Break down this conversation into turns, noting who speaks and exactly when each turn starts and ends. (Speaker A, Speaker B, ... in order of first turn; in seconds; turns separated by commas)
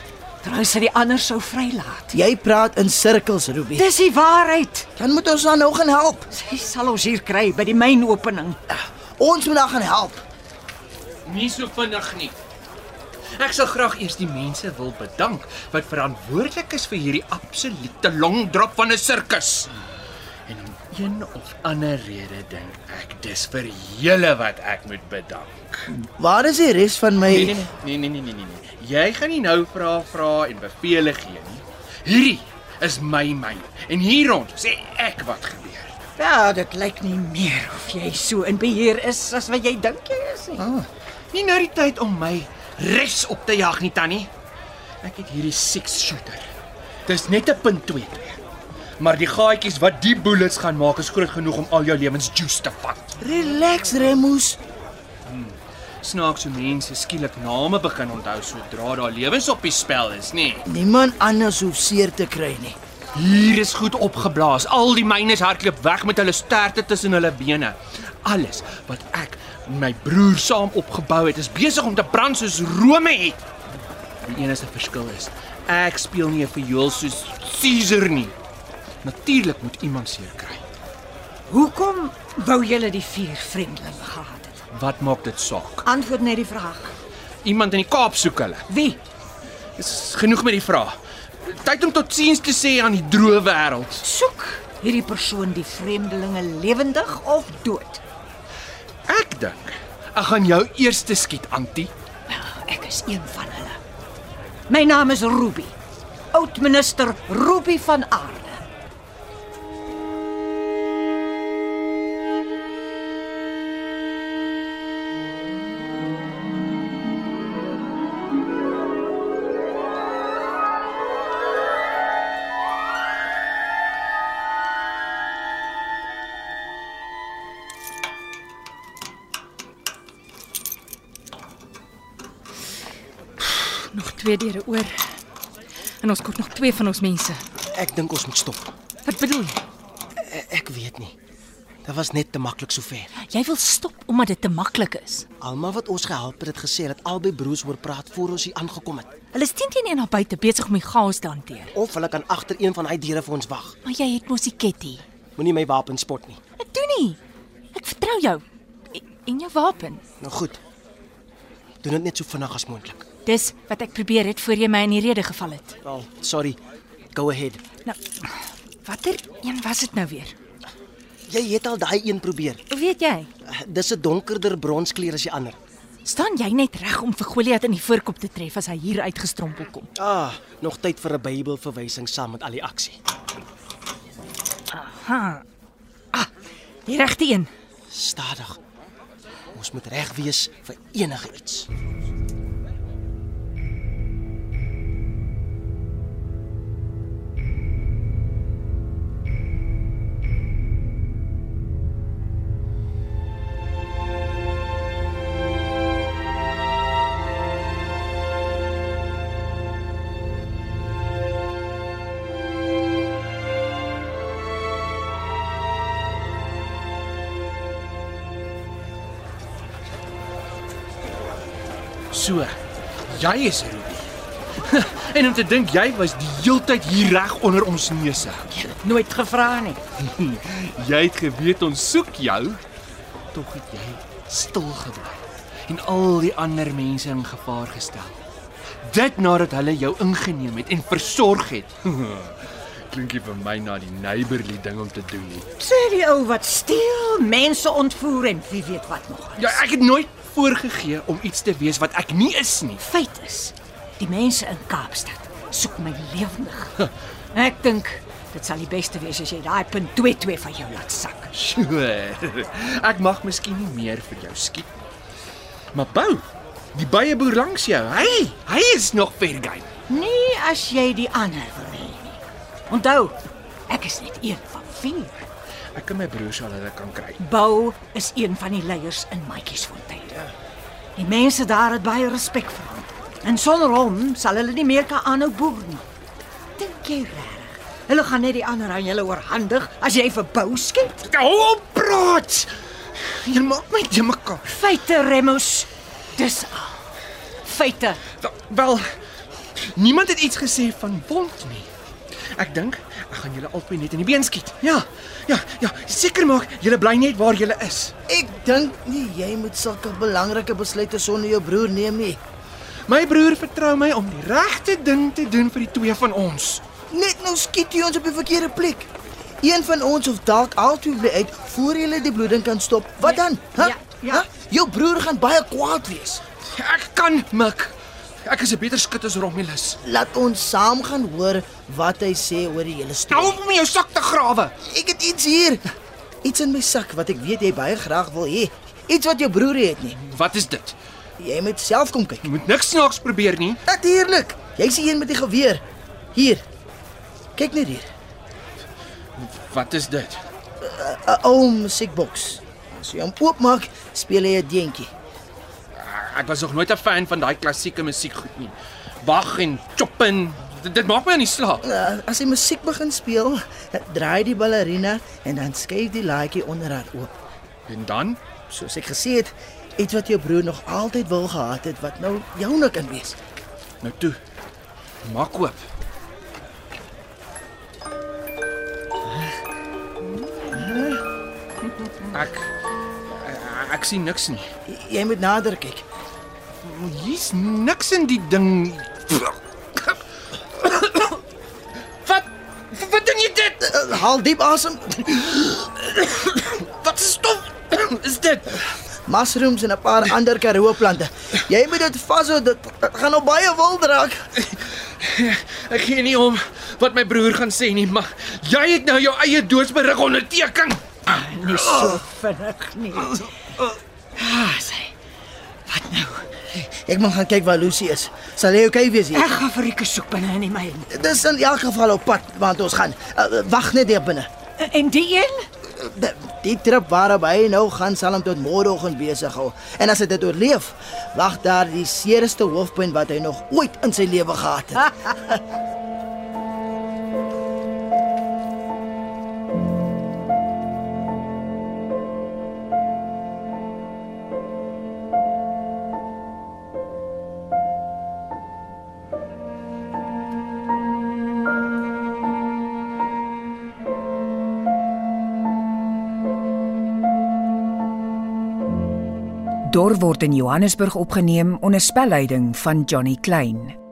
Speaker A: 0.4-2.1, Speaker B: 2.1-3.9, Speaker A: 3.8-4.9, Speaker B: 5.0-6.3, Speaker A: 6.3-8.6, Speaker B: 8.7-10.2, Speaker C: 11.2-12.4, Speaker C: 13.4-19.7, Speaker C: 20.5-25.9, Speaker B: 25.9-27.6, Speaker C: 27.2-35.9, Speaker A: 36.2-40.6, Speaker B: 40.6-40.9, Speaker C: 41.3-44.3, Speaker C: 45.0-46.5, Speaker C: 47.1-48.4, Speaker C: 49.0-53.1, Speaker B: 53.2-54.6, Speaker C: 55.2-60.6, Speaker B: 60.7-62.8, Speaker C: 63.1-73.4, Speaker C: 74.2-78.3, Speaker C: 79.0-80.6, Speaker A: 81.5-84.6, Speaker C: 84.7-85.8, Speaker A: 85.8-86.9, Speaker C: 87.4-88.7, Speaker A: 88.7-89.0, Speaker C: 89.8-94.0, Speaker A: 94.0-98.0, Speaker C: 99.1-101.9, Speaker A: 102.3-103.8, Speaker A: 104.7-105.7, Speaker A: 106.3-108.6, Speaker D: 133.7-135.0, Speaker D: 136.0-137.4, Speaker E: 137.7-138.7, Speaker D: 139.0-139.6, Speaker E: 140.2-141.1, Speaker E: 141.8-143.1, Speaker D: 143.2-145.2, Speaker E: 145.4-149.1, Speaker D: 149.3-151.7, Speaker E: 151.7-153.7, Speaker D: 153.8-155.0, Speaker E: 155.4-156.4, Speaker D: 156.6-157.2, Speaker D: 157.7-160.0, Speaker E: 160.2-160.6, Speaker E: 161.8-163.1, Speaker D: 163.2-165.7, Speaker E: 165.8-166.6, Speaker E: 167.1-167.6, Speaker D: 167.8-168.3, Speaker D: 168.8-170.3, Speaker E: 171.3-172.6, Speaker D: 172.7-173.3, Speaker E: 173.4-175.6, Speaker D: 176.0-179.9, Speaker E: 180.0-183.0, Speaker D: 184.7-185.4, Speaker D: 186.8-187.5, Speaker E: 187.9-188.6, Speaker E: 189.5-191.7, Speaker C: 222.1-222.6, Speaker C: 223.1-224.1, Speaker C: 224.7-228.5, Speaker A: 228.6-229.8, Speaker C: 230.0-232.6, Speaker C: 233.3-238.2, Speaker C: 238.8-245.5, Speaker A: 245.6-249.6, Speaker C: 249.4-252.8, Speaker A: 252.8-256.8, Speaker A: 257.3-261.3, Speaker C: 261.3-264.7, Speaker C: 265.7-269.7, Speaker A: 269.9-273.2, Speaker A: 273.7-275.2, Speaker C: 275.7-277.2, Speaker A: 277.2-280.3, Speaker A: 280.9-285.8, Speaker A: 286.6-291.0, Speaker C: 291.0-294.5, Speaker A: 294.4-296.8, Speaker A: 297.4-298.0, Speaker C: 298.2-298.9, Speaker C: 299.7-301.7, Speaker C: 302.4-307.9, Speaker B: 308.1-312.2, Speaker C: 312.9-316.6, Speaker B: 316.9-318.9, Speaker B: 319.4-326.2, Speaker A: 323.0-324.3, Speaker C: 326.5-329.8, Speaker B: 329.8-333.4, Speaker C: 333.1-334.5, Speaker B: 334.6-335.6, Speaker B: 336.2-340.0, Speaker C: 340.0-340.8, Speaker B: 341.2-342.2, Speaker C: 342.2-343.6, Speaker B: 343.6-345.6, Speaker B: 346.1-346.4, Speaker B: 347.4-347.9, Speaker C: 349.1-350.2, Speaker B: 350.6-354.9, Speaker C: 355.7-361.6, Speaker B: 361.6-367.1, Speaker C: 367.7-368.2, Speaker B: 368.5-373.2, Speaker C: 373.8-374.2, Speaker C: 375.0-375.6, Speaker B: 380.5-381.0, Speaker C: 382.1-382.5, Speaker C: 383.1-384.5, Speaker B: 384.7-385.8, Speaker C: 386.6-390.0, Speaker C: 390.5-391.2, Speaker C: 392.0-393.7, Speaker B: 393.7-395.5, Speaker C: 395.9-398.7, Speaker B: 399.1-404.2, Speaker C: 404.4-412.0, Speaker A: 411.1-413.2, Speaker A: 414.1-414.9, Speaker A: 415.7-416.3, Speaker B: 416.8-419.3, Speaker A: 419.1-420.9, Speaker B: 420.9-424.3, Speaker A: 424.6-425.5, Speaker B: 425.7-435.4, Speaker F: 459.7-463.8